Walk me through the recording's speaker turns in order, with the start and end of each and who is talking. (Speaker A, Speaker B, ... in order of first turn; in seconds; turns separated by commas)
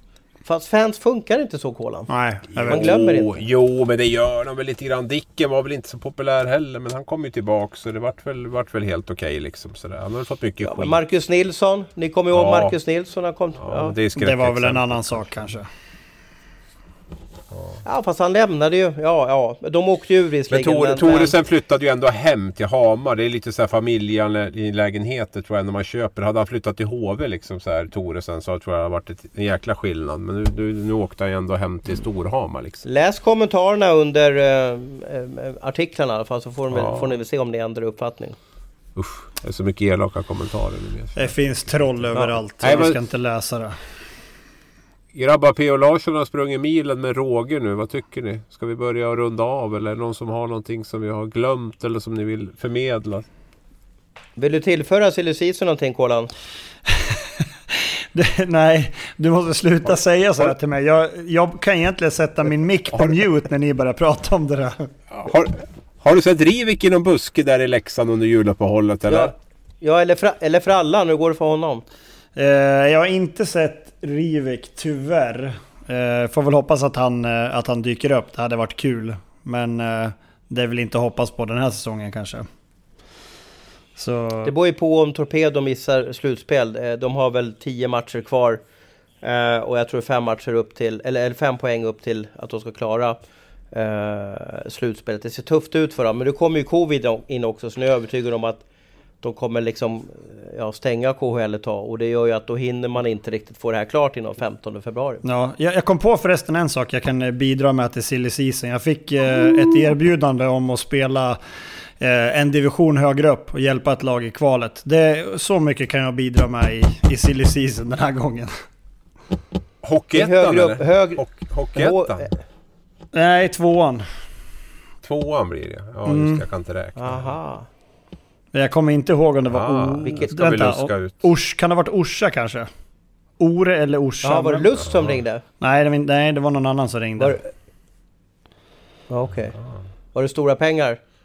Speaker A: 0.5-2.1, Speaker B: 2.1-2.8, Speaker C: 2.5-11.0, Speaker A: 2.7-3.4, Speaker A: 10.6-14.0, Speaker C: 12.3-12.8, Speaker C: 13.6-15.3, Speaker B: 14.2-15.7, Speaker C: 17.5-17.8, Speaker A: 17.8-21.3, Speaker C: 20.5-32.9, Speaker A: 32.8-38.4, Speaker C: 36.7-37.1, Speaker C: 39.0-42.0, Speaker B: 41.1-43.8, Speaker A: 42.1-42.9, Speaker C: 42.6-43.0, Speaker C: 45.1-53.3, Speaker A: 54.4-56.3, Speaker B: 57.0-64.9, Speaker C: 65.1-69.3, Speaker A: 69.1-71.8, Speaker B: 72.4-82.5, Speaker B: 84.0-84.5, Speaker A: 84.5-88.6, Speaker A: 89.2-93.2, Speaker A: 93.7-98.6, Speaker A: 99.2-105.2, Speaker B: 105.2-111.4, Speaker B: 112.0-118.5, Speaker C: 119.8-122.3, Speaker A: 120.2-122.3, Speaker B: 123.1-124.0, Speaker C: 125.0-127.4, Speaker B: 126.1-126.4, Speaker A: 127.0-127.7, Speaker B: 128.5-132.7, Speaker C: 129.5-131.2, Speaker A: 130.0-130.3, Speaker B: 133.4-134.7, Speaker A: 134.2-135.4, Speaker C: 134.8-135.2, Speaker B: 135.6-137.4, Speaker A: 137.2-137.5, Speaker A: 139.1-139.6, Speaker A: 140.1-141.0